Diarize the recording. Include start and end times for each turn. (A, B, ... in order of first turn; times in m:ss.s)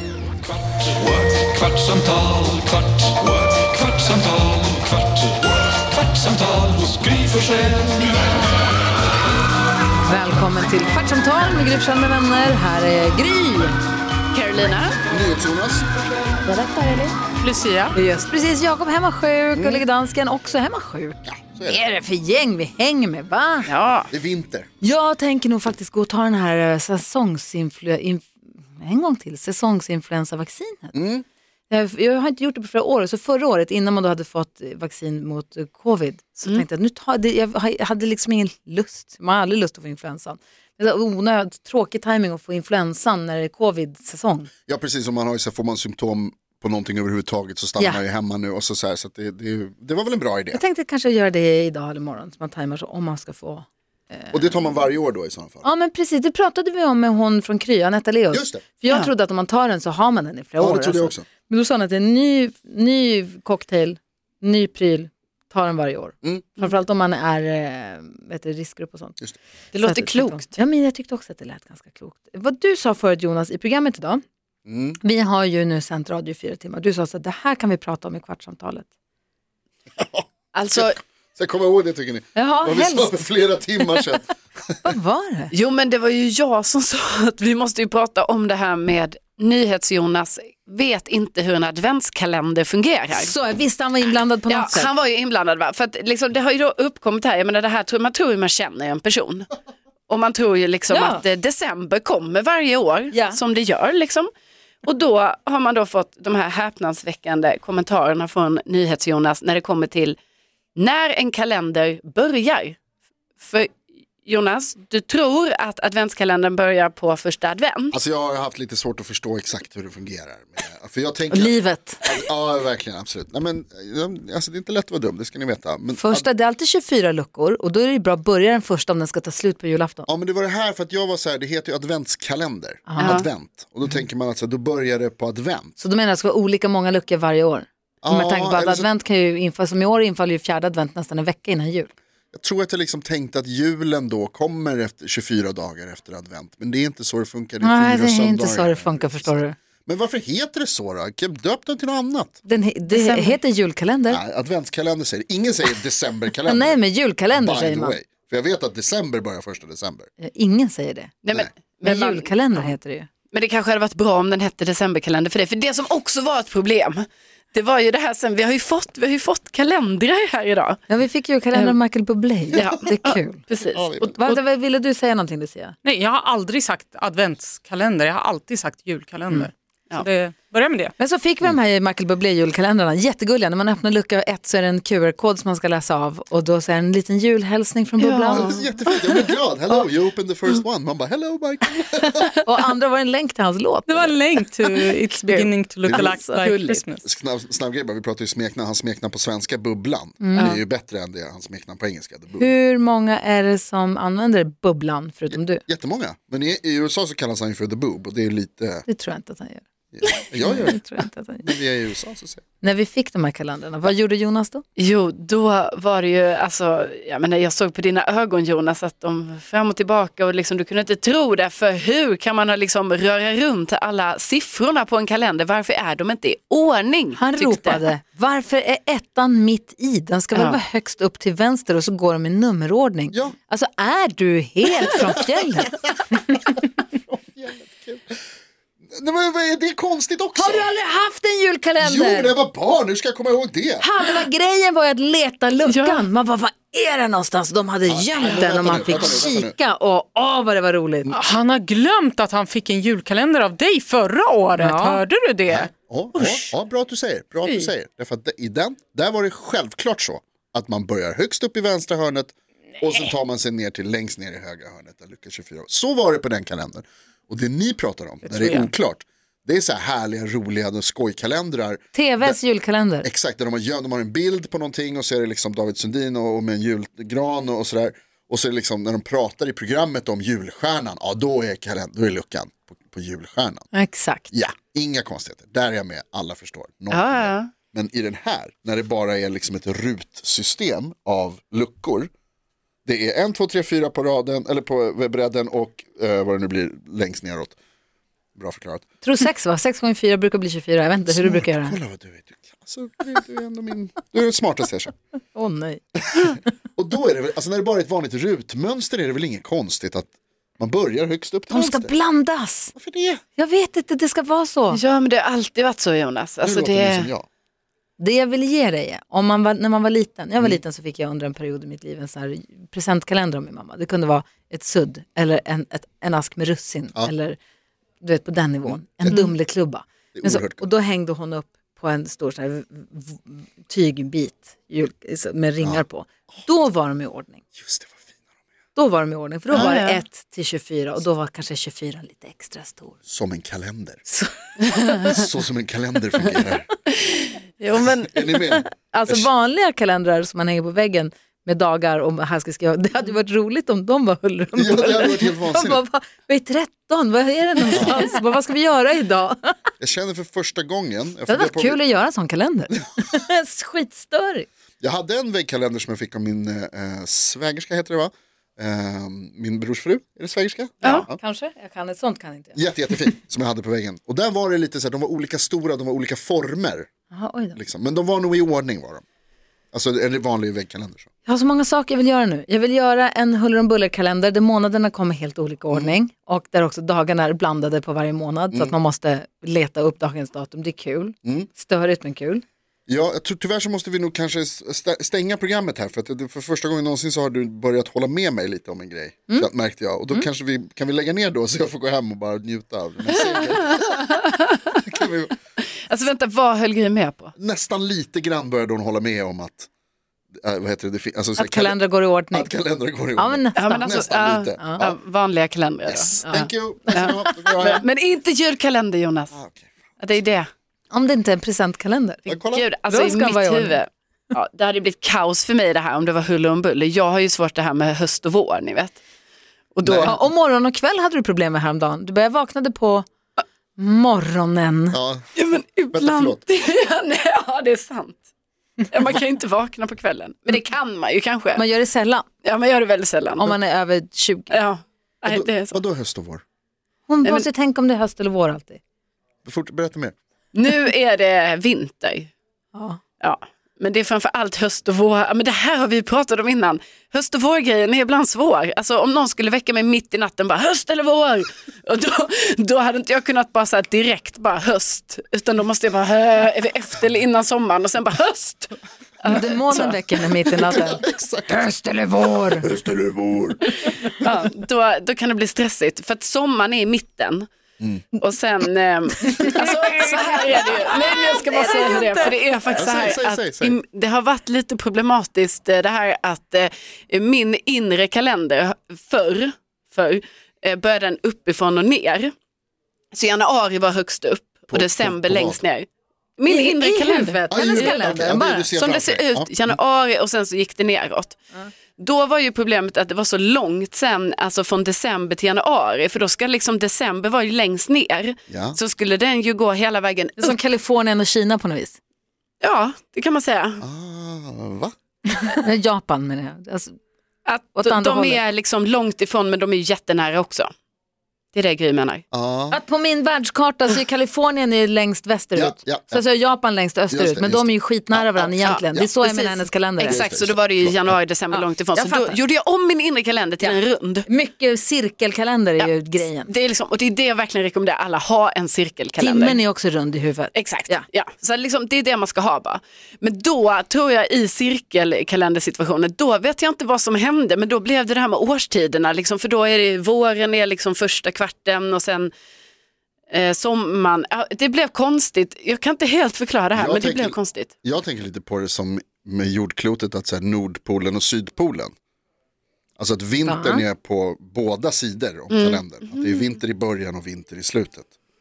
0:00.7-0:08.1 A
0:10.1-0:13.8 B
0:14.3-0:15.0 C
0:15.1-0:15.9 D
0:16.5-0:17.1 B
0:17.4-0:18.0 E
0:17.9-0:23.7 B
0:19.6-0:19.8 D
0:21.3-0:21.8 D
0:23.7-0:24.1 C
0:24.1-0:24.7 D
0:24.8-0:31.0 B
0:30.9-0:31.2 D
0:31.7-0:44.5 B
0:44.7-0:50.6 D
0:50.5-0:54.8 B
0:54.3-0:55.7 D
0:55.6-1:09.2 B
0:58.3-0:58.6 D
1:00.6-1:01.3 D
1:09.7-1:10.5 C
1:09.8-1:14.2 B
1:14.7-1:15.0 D
1:15.0-1:18.9 B
1:20.0-1:24.9 D
1:20.5-1:21.0 C
1:22.4-1:23.3 B
1:24.8-1:25.5 B
1:25.5-1:33.3 C
1:33.1-1:34.9 B
1:34.5-1:39.5 C
1:40.1-1:44.3 C
1:40.9-1:41.2 B
1:43.1-1:43.4 B
1:44.8-1:50.2 C
1:50.8-1:52.8 C
1:53.4-1:58.0 C
1:57.9-2:06.3 D
2:01.3-2:02.0 B
2:06.0-2:10.1 B
2:10.1-2:15.7 D
2:12.9-2:13.2 B
2:13.0-2:13.2 C
2:15.8-2:21.9 B
2:18.0-2:18.9 D
2:22.3-2:32.4 D
2:27.6-2:29.6 B
2:32.4-2:34.2 B
2:32.9-2:33.4 C
2:34.1-2:40.1 D
2:36.4-2:38.0 B
2:40.2-2:41.1 B
2:41.2-2:42.7 C
2:41.8-2:43.1 B
2:43.3-2:50.8 C
2:50.9-2:53.4 B
2:52.6-2:54.3 C
2:53.7-2:54.4 D
2:54.1-2:55.8 B
2:55.8-3:00.9 E
3:01.0-3:08.6 B
3:08.0-3:08.7 C
3:08.3-3:12.3 D
3:12.4-3:14.1 B
3:13.9-3:17.1 E
3:15.2-3:16.8 B
3:15.9-3:22.5 D
3:20.2-3:20.6 B
3:22.4-3:25.6 B
3:25.3-3:28.9 D
3:28.9-3:31.6 B
3:29.9-3:30.8 D
3:31.4-3:32.4 D
3:32.6-3:34.6 B
3:34.8-3:47.8 C
3:47.2-3:55.8 B
3:54.8-3:55.4 D
3:56.1-3:58.2 D
3:58.9-4:00.7 D
4:00.4-4:02.4 B
4:01.8-4:03.9 D
4:03.8-4:11.2 B
4:05.7-4:06.0 C
4:07.9-4:09.6 D
4:11.1-4:16.5 E
4:14.6-4:15.0 B
4:15.5-4:32.4 D
4:28.2-4:28.7 E
4:31.9-4:33.1 B
4:33.0-4:43.7 D
4:43.7-4:44.3 B
4:44.3-4:52.1 D
4:46.9-4:47.5 C
4:52.9-4:57.6 D
4:58.4-4:58.9 D
4:59.0-5:01.8 B
5:01.1-5:04.9 D
5:05.3-5:05.8 B
5:06.0-5:12.0 D
5:11.5-5:12.7 B
5:12.8-5:13.2 D
5:13.4-5:14.8 B
5:14.7-5:17.1 C
5:16.4-5:17.3 D
5:18.0-5:27.4 B
5:28.0-5:37.4 B
5:28.7-5:29.3 D
5:30.2-5:30.7 D
5:37.6-5:38.2 D
5:38.8-5:43.0 B
5:39.5-5:40.0 C
5:43.1-5:44.0 D
5:44.1-5:44.3 B
5:45.0-5:46.7 D
5:47.6-5:48.1 C
5:48.0-5:49.3 D
5:48.8-5:59.6 B
5:54.6-5:55.8 D
5:57.7-5:58.1 D
5:59.8-6:01.8 D
6:01.3-6:04.5 B
6:04.8-6:11.2 D
6:10.8-6:12.7 B
6:12.6-6:16.9 D
6:17.1-6:17.6 B
6:17.6-6:19.0 D
6:19.7-6:21.1 D
6:21.2-6:32.4 B
6:25.7-6:26.0 D
6:32.9-6:45.4 D
6:44.0-6:44.6 C
6:45.6-6:47.3 C
6:47.4-6:49.7 D
6:50.4-6:55.0 D
6:51.4-6:52.5 B
6:53.2-6:54.0 B
6:53.6-6:59.3 C
6:54.6-6:54.9 B
6:55.9-6:57.9 D
6:56.2-6:57.2 B
6:59.3-6:59.7 D
7:00.0-7:00.5 C
7:00.9-7:02.2 B
7:02.3-7:02.7 D
7:02.3-7:09.0 C
7:02.9-7:03.8 B
7:09.8-7:10.2 C
7:09.8-7:10.2 D
7:10.0-7:13.1 B
7:13.8-7:15.0 B
7:14.9-7:15.3 D
7:15.4-7:18.2 C
7:15.9-7:16.4 D
7:18.9-7:21.6 C
7:21.6-7:22.3 B
7:22.4-7:23.5 C
7:23.4-7:24.6 B
7:24.5-7:25.8 C
7:25.2-7:26.4 D
7:27.1-7:28.8 B
7:29.4-7:30.2 D
7:30.5-7:32.3 C
7:32.7-7:33.0 B
7:33.2-7:50.0 C
7:49.2-7:52.7 B
7:50.5-7:51.7 D
7:52.6-7:54.1 D
7:53.7-7:57.5 C
7:57.8-7:58.1 D
7:58.2-8:12.3 C
7:59.3-8:02.9 B
8:02.8-8:03.8 D
8:13.1-8:15.9 C
8:14.7-8:15.6 D
8:16.4-8:21.4 C
8:16.5-8:18.7 B
8:17.5-8:19.7 D
8:22.0-8:30.6 C
8:28.5-8:28.8 D
8:30.4-8:32.0 B
8:32.6-8:33.8 C
8:33.8-8:34.9 D
8:35.4-8:37.0 B
8:37.5-8:40.7 C
8:37.8-8:38.4 B
8:41.5-8:42.2 C
8:42.3-8:42.8 D
8:42.7-8:50.2 B
8:45.5-8:46.2 D
8:47.1-8:49.1 D
8:48.6-8:54.3 C
8:50.0-8:51.2 D
8:51.5-8:52.4 B
8:53.6-8:56.5 B
8:55.8-8:59.6 C
8:59.2-9:01.0 B
9:00.6-9:12.3 C
9:13.3-9:17.7 C
9:16.7-9:21.9 D
9:23.0-9:28.1 D
9:23.4-9:23.8 B
9:25.5-9:26.4 C